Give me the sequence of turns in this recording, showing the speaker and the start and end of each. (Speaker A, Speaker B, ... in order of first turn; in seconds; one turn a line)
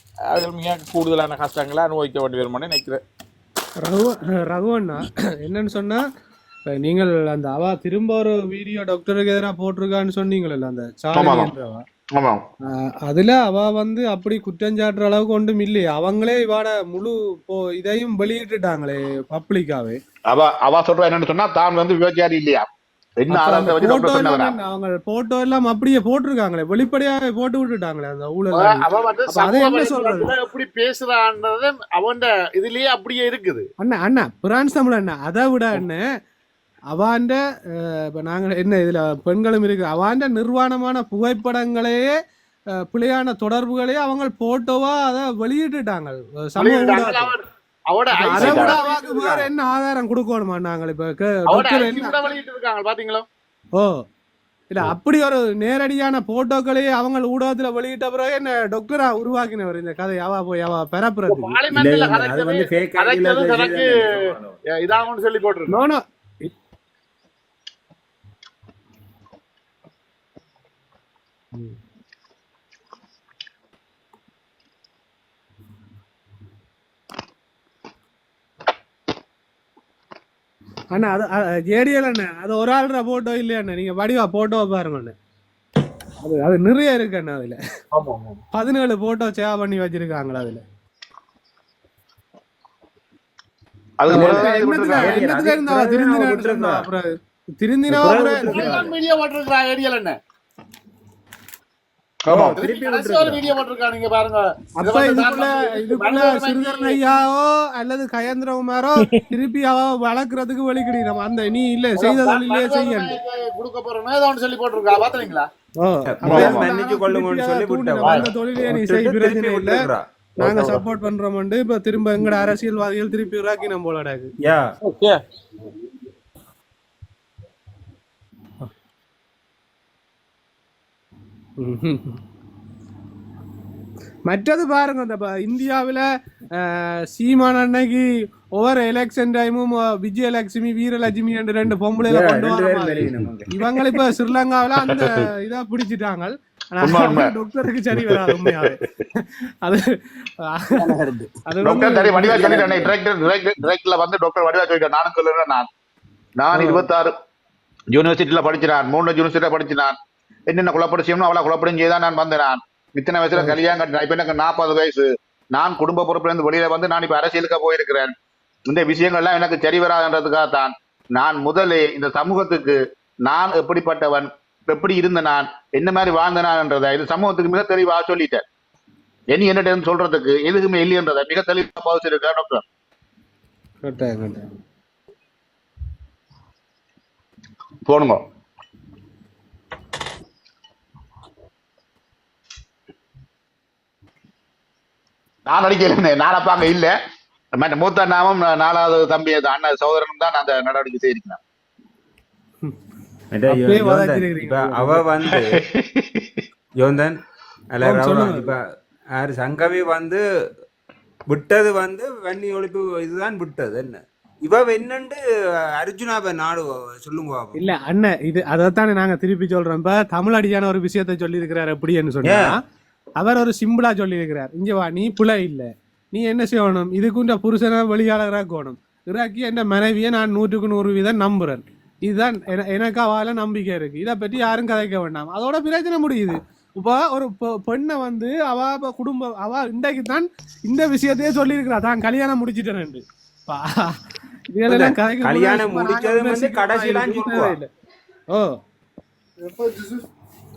Speaker A: 0.3-3.0
Speaker B: 3.8-6.1
Speaker B: 6.7-11.8
Speaker C: 11.1-11.5
Speaker C: 12.2-12.4
Speaker B: 12.7-20.0
Speaker C: 20.3-22.7
Speaker C: 23.2-24.6
Speaker B: 23.3-30.3
Speaker D: 28.5-33.7
Speaker B: 33.8-36.0
Speaker B: 36.9-42.1
Speaker B: 42.8-47.3
Speaker D: 46.6-49.5
Speaker B: 48.1-52.3
Speaker A: 48.4-48.8
Speaker D: 51.5-53.2
Speaker B: 54.7-61.6
Speaker D: 61.3-64.2
Speaker E: 61.7-64.4
Speaker D: 64.7-65.7
Speaker B: 65.7-66.5
Speaker B: 80.9-85.1
Speaker B: 86.2-87.6
Speaker D: 87.9-88.4
Speaker B: 88.5-90.6
Speaker C: 94.0-95.2
Speaker E: 94.1-96.9
Speaker B: 94.1-98.8
Speaker E: 97.9-99.0
Speaker D: 98.1-100.2
Speaker C: 102.3-102.6
Speaker E: 102.3-103.5
Speaker D: 102.4-107.0
Speaker B: 104.8-113.2
Speaker D: 112.0-115.5
Speaker B: 115.8-119.9
Speaker E: 116.1-120.5
Speaker D: 118.0-118.3
Speaker B: 120.4-124.3
Speaker D: 120.5-120.8
Speaker E: 124.4-124.7
Speaker A: 124.8-125.2
Speaker B: 131.6-132.2
Speaker B: 134.3-150.9
Speaker E: 142.1-143.5
Speaker C: 146.8-147.3
Speaker C: 148.0-148.6
Speaker E: 150.8-151.4
Speaker B: 151.5-152.8
Speaker C: 151.6-155.7
Speaker E: 152.3-152.8
Speaker C: 156.4-157.1
Speaker B: 156.5-156.9
Speaker C: 157.9-159.9
Speaker C: 160.5-168.1
Speaker C: 168.7-178.4
Speaker C: 179.3-182.6
Speaker B: 183.8-184.5
Speaker C: 187.9-188.2
Speaker C: 195.5-196.9
Speaker C: 197.6-201.4
Speaker E: 203.3-205.6
Speaker B: 203.5-205.1
Speaker C: 205.7-206.4
Speaker E: 206.8-208.6
Speaker B: 207.8-208.5
Speaker E: 209.1-210.2
Speaker E: 211.3-215.2
Speaker E: 215.7-217.6
Speaker B: 217.6-222.6
Speaker E: 222.2-222.6
Speaker B: 223.2-244.0
Speaker B: 244.5-247.7
Speaker E: 244.7-247.6
Speaker B: 248.3-248.6
Speaker D: 249.4-250.1